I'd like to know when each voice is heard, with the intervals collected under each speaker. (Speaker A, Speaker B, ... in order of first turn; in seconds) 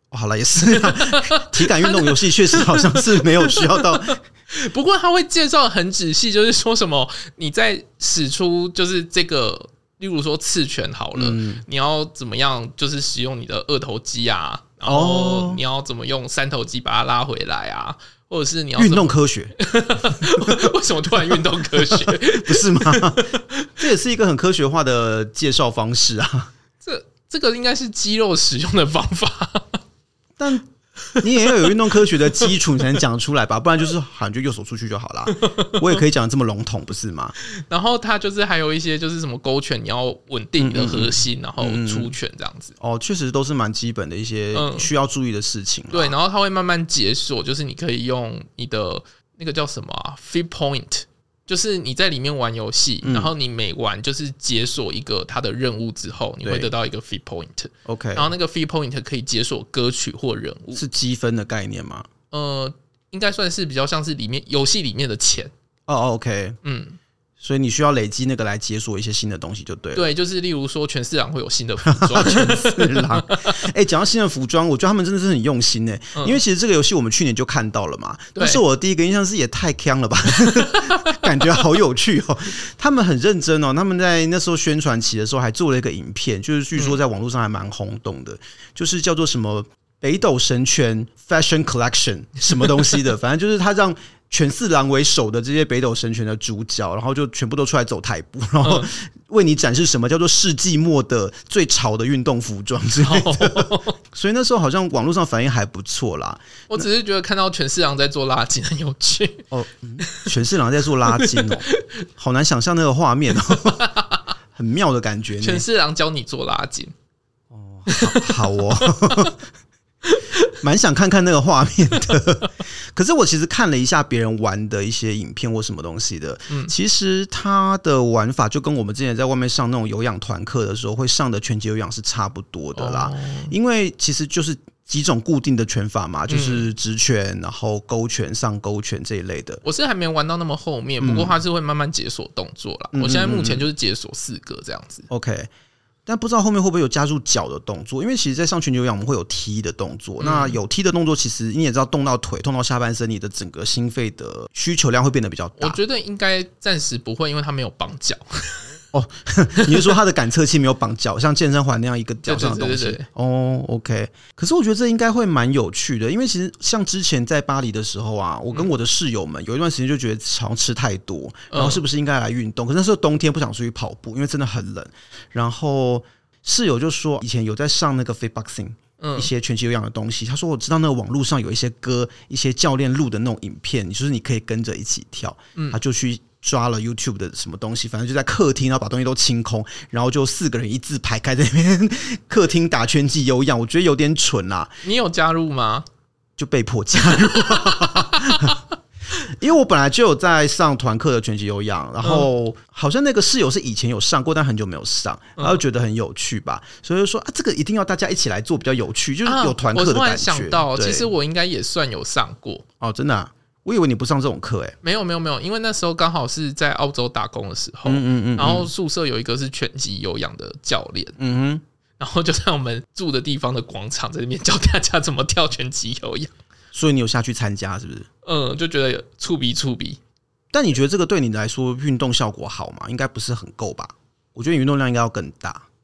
Speaker A: 0.1-4.2, 11.2-11.6, 14.8-15.6, 18.8-20.7, 21.2-26.5, 30.4-30.7, 31.2-37.4, 40.6-42.1, 42.8-46.2, 53.0-53.3, 56.4-56.7, 57.9-58.3, 60.7-62.1, 65.9-66.6, 67.4-70.1, 71.8-106.9, 109.5-113.9, 114.5-115.7, 117.5-119.4, 120.5-139.6, 141.0-141.4, 142.9-143.7, 145.1-145.5, 146.1-155.8, 158.9-194.8, 196.4-198.6, 199.2-211.1, 212.8-214.8, 217.9-218.7, 221.2-221.6, 226.7-228.1, 230.5-235.7
Speaker B: 0.7-23.8, 26.8-29.8, 31.1-32.5, 35.4-36.0, 37.4-42.8, 44.5-44.9, 45.9-60.8, 62.3-65.5, 66.6-67.0, 69.9-73.6, 76.2-76.4, 78.3-78.6, 80.5-81.3, 98.6-98.9, 103.0-104.0, 106.7-109.5, 110.0-110.3, 111.1-111.9, 113.5-114.2, 115.4-116.9, 117.9-119.3, 120.0-120.5, 132.8-133.5, 136.3-136.7, 139.6-145.1, 150.2-150.6, 155.6-158.7, 159.6-160.0, 162.3-163.1, 171.5-171.8, 179.0-179.3, 194.8-195.9, 197.1-198.6, 202.0-202.3, 209.2-212.6, 214.8-221.2, 222.0-226.3, 228.2-230.0